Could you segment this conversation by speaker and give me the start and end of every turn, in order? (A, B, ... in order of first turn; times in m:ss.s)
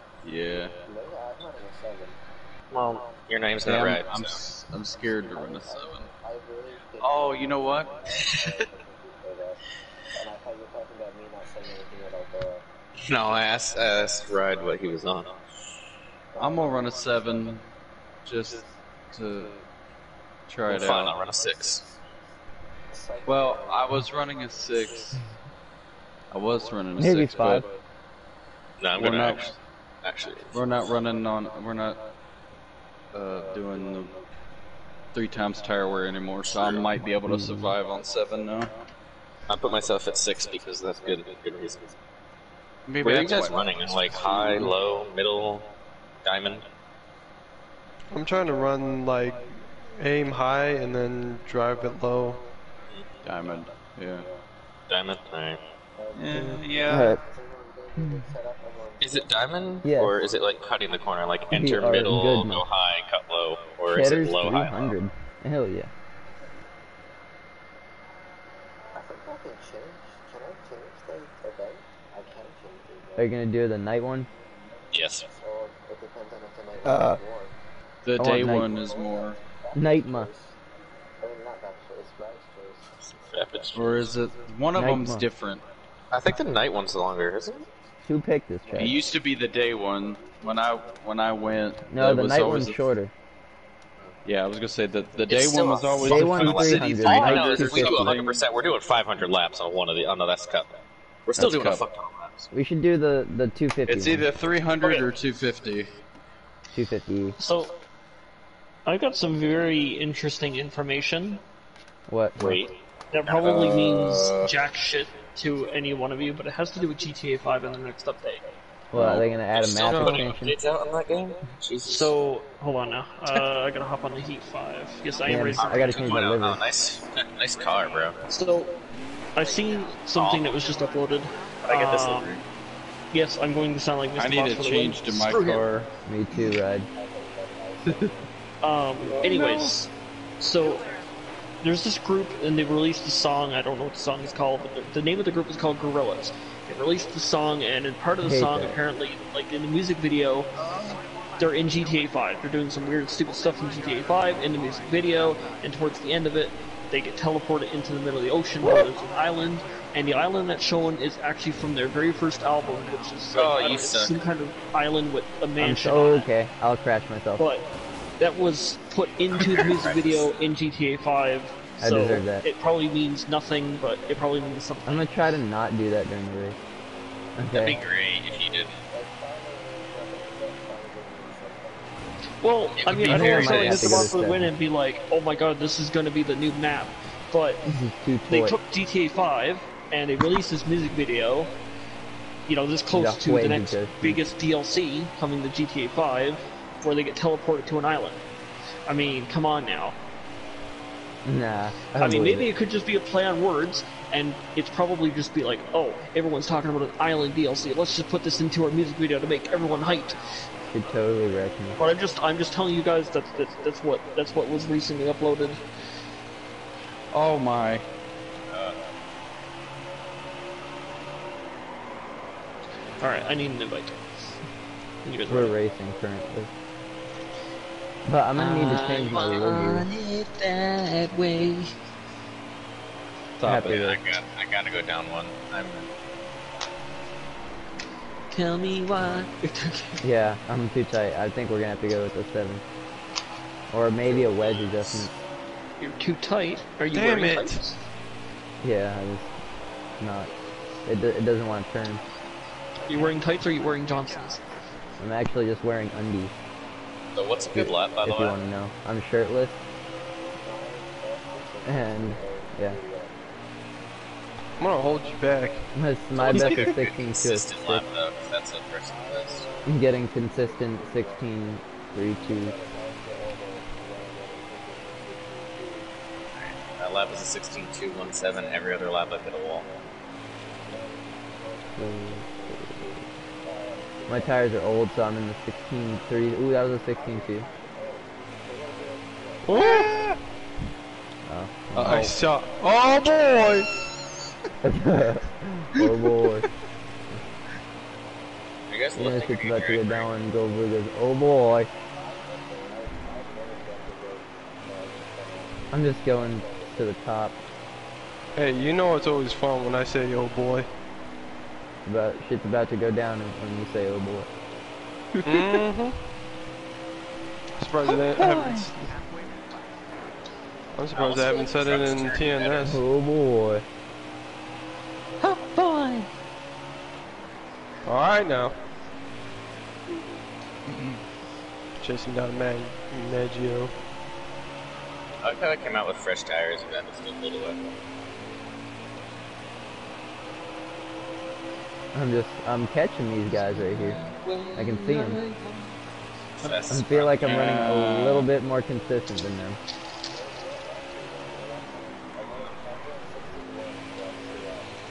0:00.2-0:00.7 A
0:00.8-0:02.2 B
0:02.7-0:03.0 C
0:03.3-0:04.3 D
0:03.6-0:06.1 A
0:03.9-0:04.3 B
0:05.0-0:09.6 B
0:07.0-0:07.9 A
0:10.2-0:12.6 B
0:13.0-0:15.4 D
0:16.4-0:17.7 A
0:18.3-0:19.6 A
0:20.5-0:21.2 A
0:20.7-0:21.9 D
0:23.2-0:25.2 A
0:26.3-0:27.7 A
0:27.0-0:27.7 E
0:28.8-0:30.7 D
0:29.0-0:29.5 A
0:30.5-0:32.0 A
0:33.1-0:34.1 A
0:35.1-0:38.7 A
0:36.5-0:36.9 D
0:37.3-0:37.8 E
0:39.5-0:41.8 D
0:42.9-0:44.7 A
0:43.0-0:45.7 D
0:46.2-0:46.6 D
0:48.1-0:49.4 F
0:50.0-0:52.4 F
0:53.2-0:54.2 A
0:54.9-0:55.6 D
0:56.0-1:00.0 B
0:56.2-0:57.2 A
0:56.9-0:57.2 E
0:59.0-1:05.0 D
0:59.8-1:00.2 E
1:01.5-1:02.6 E
1:03.9-1:05.9 E
1:08.9-1:13.3 B
1:13.2-1:14.3 E
1:14.9-1:15.2 D
1:15.2-1:17.6 B
1:16.8-1:17.2 E
1:18.0-1:19.4 A
1:18.2-1:18.7 E
1:18.5-1:20.6 B
1:19.8-1:20.3 E
1:21.2-1:23.8 B
1:23.1-1:24.0 D
1:23.7-1:25.6 A
1:24.7-1:25.3 E
1:26.1-1:27.6 D
1:28.1-1:29.0 E
1:28.8-1:32.8 A
1:31.9-1:33.1 E
1:34.2-1:38.4 A
1:35.3-1:42.5 D
1:36.0-1:38.2 E
1:41.4-1:41.8 A
1:42.5-1:44.3 E
1:43.9-1:45.9 A
1:44.8-1:45.1 C
1:46.7-1:47.4 E
1:47.4-1:47.7 C
1:48.9-1:51.4 C
1:52.1-1:52.7 E
1:53.1-1:58.5 C
1:53.2-1:54.3 D
1:53.4-1:54.6 A
1:58.9-2:00.6 E
1:58.9-1:59.3 A
1:59.5-2:02.1 D
1:59.9-2:00.3 F
2:01.8-2:06.2 C
2:05.3-2:06.6 E
2:05.6-2:08.3 D
2:08.2-2:08.7 C
2:09.4-2:12.4 C
2:09.4-2:09.9 B
2:10.1-2:10.6 D
2:11.7-2:12.2 D
2:11.9-2:12.4 A
2:13.1-2:15.7 C
2:14.2-2:15.9 A
2:16.0-2:16.9 E
2:17.0-2:18.3 B
2:18.6-2:20.9 C
2:19.0-2:19.7 A
2:21.6-2:30.5 C
2:28.2-2:28.8 E
2:30.6-2:31.0 A
2:31.4-2:46.3 C
2:38.6-2:38.9 E
2:43.3-2:44.2 D
2:45.6-2:47.4 E
2:47.4-2:47.6 C
2:48.2-2:55.1 C
2:49.4-2:50.3 D
2:51.8-2:52.5 E
2:54.9-2:56.6 E
2:57.4-2:57.8 E
2:57.5-2:58.8 D
2:57.6-3:02.0 B
3:02.4-3:07.7 C
3:02.8-3:04.1 D
3:03.0-3:04.5 E
3:07.7-3:08.6 E
3:08.3-3:11.5 C
3:12.5-3:18.2 C
3:12.9-3:14.2 E
3:18.9-3:20.0 C
3:21.2-3:22.5 E
3:21.9-3:30.4 C
3:30.7-3:31.8 E
3:31.8-3:35.6 C
3:37.1-3:37.9 A
3:38.5-3:38.8 D
3:43.0-3:44.4 C
3:45.0-3:45.6 C
3:45.3-3:46.5 E
3:48.1-3:49.9 E
3:48.4-3:51.7 C
3:53.4-3:53.8 A
3:53.4-3:54.0 E
3:53.6-3:55.9 D
3:58.3-4:00.0 C
4:00.0-4:02.6 E
4:03.7-4:05.1 E
4:04.1-4:05.1 D
4:05.8-4:07.8 C
4:06.9-4:07.6 F
4:08.6-4:09.3 E
4:10.0-4:10.3 E
4:10.9-4:12.0 E
4:12.9-4:14.4 C
4:15.0-4:16.4 E
4:17.2-4:18.4 D
4:17.5-4:19.6 E
4:20.4-4:23.2 B
4:21.7-4:22.8 E
4:24.6-4:25.7 F
4:25.2-4:25.5 B
4:25.8-4:27.8 E
4:26.2-4:29.4 D
4:26.4-4:26.6 A
4:29.2-4:31.4 B
4:29.7-4:32.6 E
4:32.2-4:35.9 B
4:36.4-4:39.7 D
4:40.7-4:44.4 B
4:41.8-4:42.8 E
4:44.1-4:47.5 E
4:47.0-4:50.2 B
4:49.5-4:50.2 F
4:51.3-4:52.2 E
4:51.8-4:52.1 A
4:51.8-4:53.7 F
4:54.6-4:56.5 E
4:58.7-5:00.1 D
4:59.0-5:01.7 E
5:01.9-5:06.9 B
5:05.7-5:07.4 E
5:08.4-5:10.7 F
5:11.9-5:14.3 E
5:15.2-5:16.0 F
5:17.6-5:18.8 F
5:18.2-5:18.6 A
5:20.7-5:22.8 F
5:20.9-5:22.7 D
5:22.6-5:23.6 E
5:25.2-5:26.0 A
5:27.9-5:28.6 F
5:30.7-5:31.0 A
5:31.8-5:33.7 F
5:35.2-5:37.6 D
5:41.9-5:44.0 E
5:43.4-5:45.7 A
5:44.6-5:45.2 E
5:46.4-5:47.7 D
5:46.7-5:49.6 E
5:47.2-5:48.3 A
5:50.1-5:54.8 B